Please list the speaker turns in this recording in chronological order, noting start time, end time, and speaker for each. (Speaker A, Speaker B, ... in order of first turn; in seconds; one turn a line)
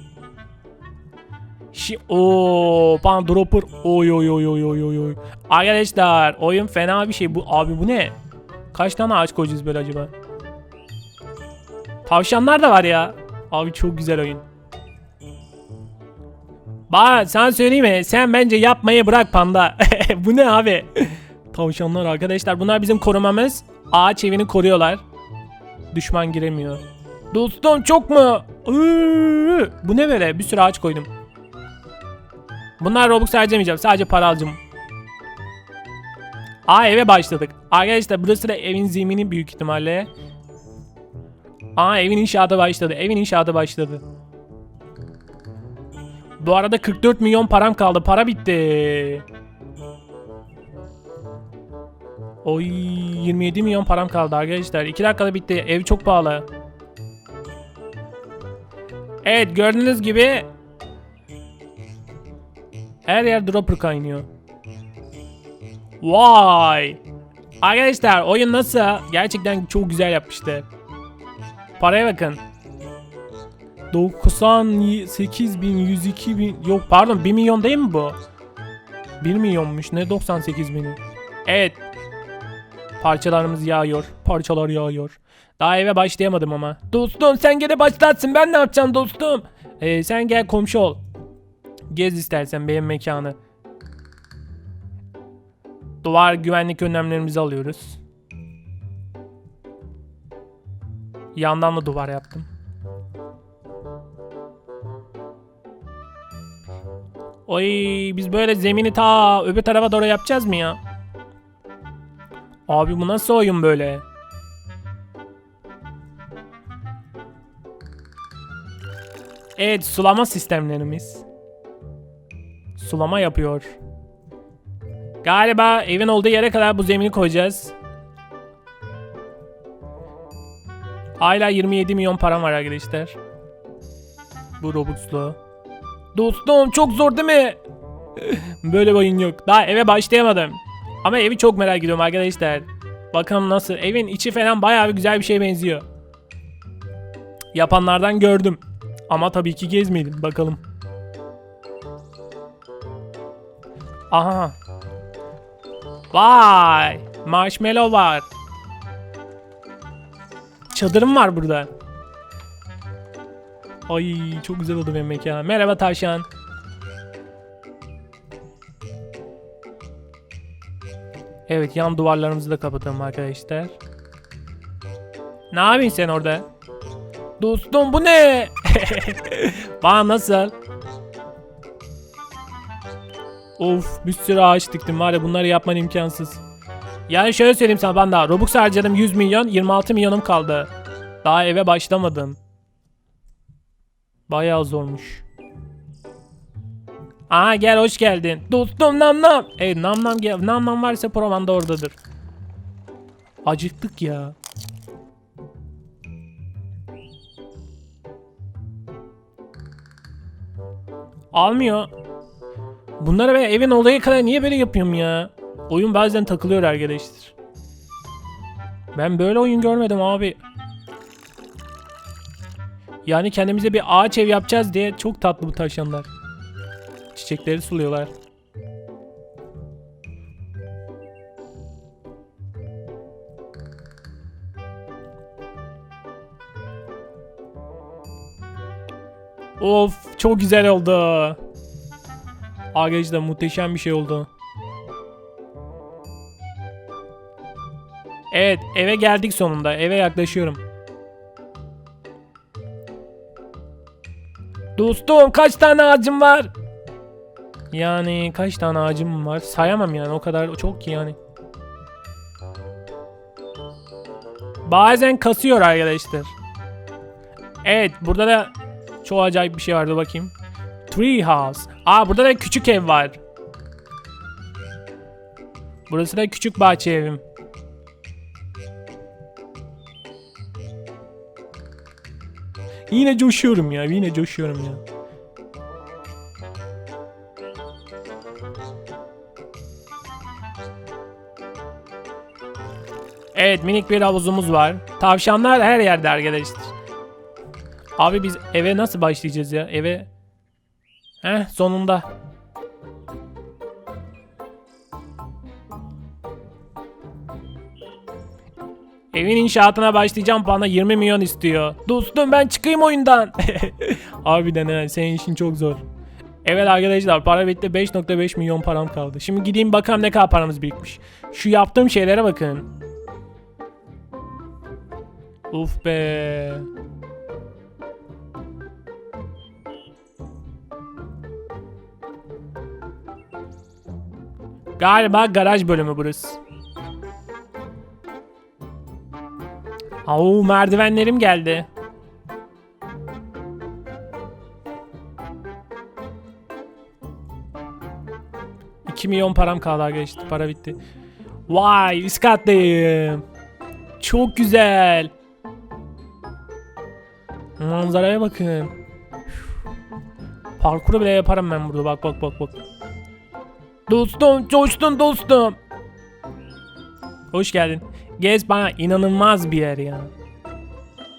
Speaker A: 1.7-8.2
Speaker A: 8.7-10.1
Speaker A: 12.0-14.4
Speaker A: 16.9-25.0
Speaker A: 25.9-31.1
Speaker A: 32.8-34.6
Speaker A: 36.7-40.1
Speaker A: 41.7-44.0
Speaker A: 46.4-49.2
Speaker A: 52.4-56.5
Speaker A: 59.2-60.5
Speaker A: 63.0-64.2
Speaker A: 66.0-67.0
Speaker A: 67.6-70.7
Speaker A: 71.8-72.4
Speaker A: 73.9-78.2
Speaker A: 79.2-81.8
Speaker A: 83.0-91.0
Speaker A: 91.9-93.4
Speaker A: 96.0-98.0
Speaker A: 101.3-102.5
Speaker A: 107.5-110.8
Speaker A: 112.7-114.0
Speaker A: 119.6-121.2
Speaker A: 122.7-123.7
Speaker A: 125.2-127.7
Speaker A: 131.2-133.2
Speaker A: 134.6-135.4
Speaker A: 136.1-137.6
Speaker A: 138.2-145.8
Speaker A: 147.5-150.6
Speaker A: 154.1-154.6
Speaker A: 156.1-158.3
Speaker A: 160.7-161.7
Speaker A: 163.9-166.3
Speaker A: 171.5-173.8
Speaker A: 175.5-176.4
Speaker A: 177.4-180.5
Speaker A: 183.6-186.4
Speaker A: 187.1-190.7
Speaker A: 191.2-192.4
Speaker A: 194.3-195.2
Speaker A: 197.3-202.0
Speaker A: 203.4-204.4
Speaker A: 211.3-211.9
Speaker A: 213.0-217.3
Speaker A: 218.9-220.4
Speaker A: 223.0-226.1
Speaker A: 227.1-228.1
Speaker A: 239.6-241.4
Speaker A: 242.7-244.3
Speaker A: 248.3-250.6
Speaker A: 254.8-256.5
Speaker A: 257.7-261.2
Speaker A: 264.6-266.3
Speaker A: 267.6-270.3
Speaker A: 270.9-273.2
Speaker A: 275.9-277.2
Speaker A: 282.9-284.8
Speaker A: 293.3-296.7
Speaker A: 298.0-300.1
Speaker A: 301.2-302.1
Speaker A: 309.1-315.8
Speaker A: 316.4-322.7
Speaker A: 325.5-326.7
Speaker A: 334.8-336.4
Speaker A: 340.0-341.7
Speaker A: 348.9-350.8
Speaker A: 351.5-353.2
Speaker A: 354.0-355.1
Speaker A: 357.6-358.7
Speaker A: 360.6-362.6
Speaker A: 363.9-365.6
Speaker A: 367.3-370.1